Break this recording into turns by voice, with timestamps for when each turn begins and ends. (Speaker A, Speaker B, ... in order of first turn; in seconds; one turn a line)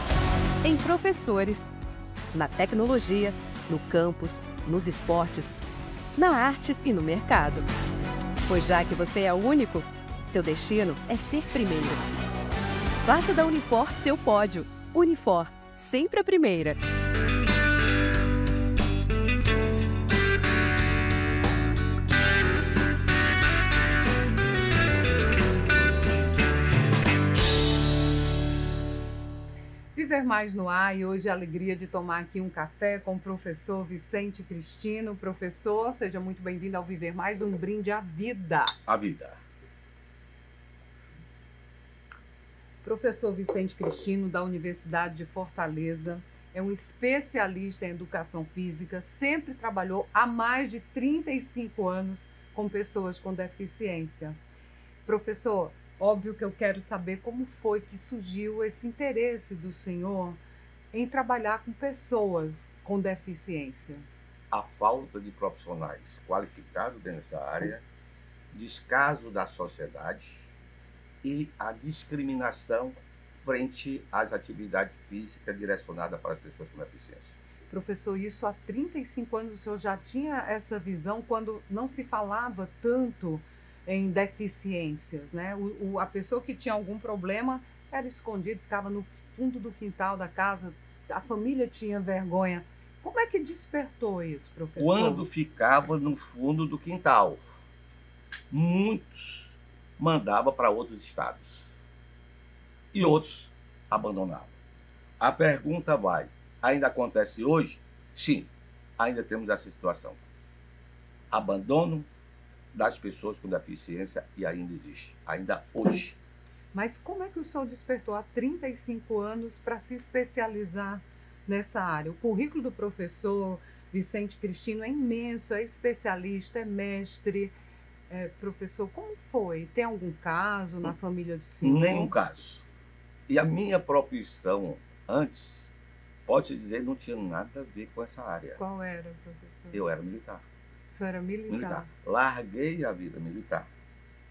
Speaker A: 0.6-1.7
Speaker A: 2.3-5.5
Speaker A: 6.2-7.7
Speaker A: 8.5-12.0
Speaker A: 13.0-16.8
Speaker B: 29.9-38.8
Speaker C: 38.9-39.4
Speaker B: 42.8-54.4
Speaker B: 55.0-60.4
Speaker B: 60.9-64.0
Speaker C: 64.5-67.8
Speaker C: 68.5-70.5
Speaker C: 71.2-77.3
Speaker B: 77.7-95.2
Speaker C: 94.8-97.4
Speaker C: 98.5-101.7
Speaker C: 102.9-104.5
Speaker C: 105.2-110.2
Speaker C: 111.3-112.1
Speaker C: 112.7-116.2
Speaker B: 116.7-127.5
Speaker B: 128.1-132.1
Speaker C: 131.6-132.6
Speaker C: 133.3-135.7
Speaker C: 136.3-138.6
Speaker B: 138.6-139.8
Speaker C: 139.7-140.4
Speaker B: 140.9-141.9
Speaker C: 141.5-143.7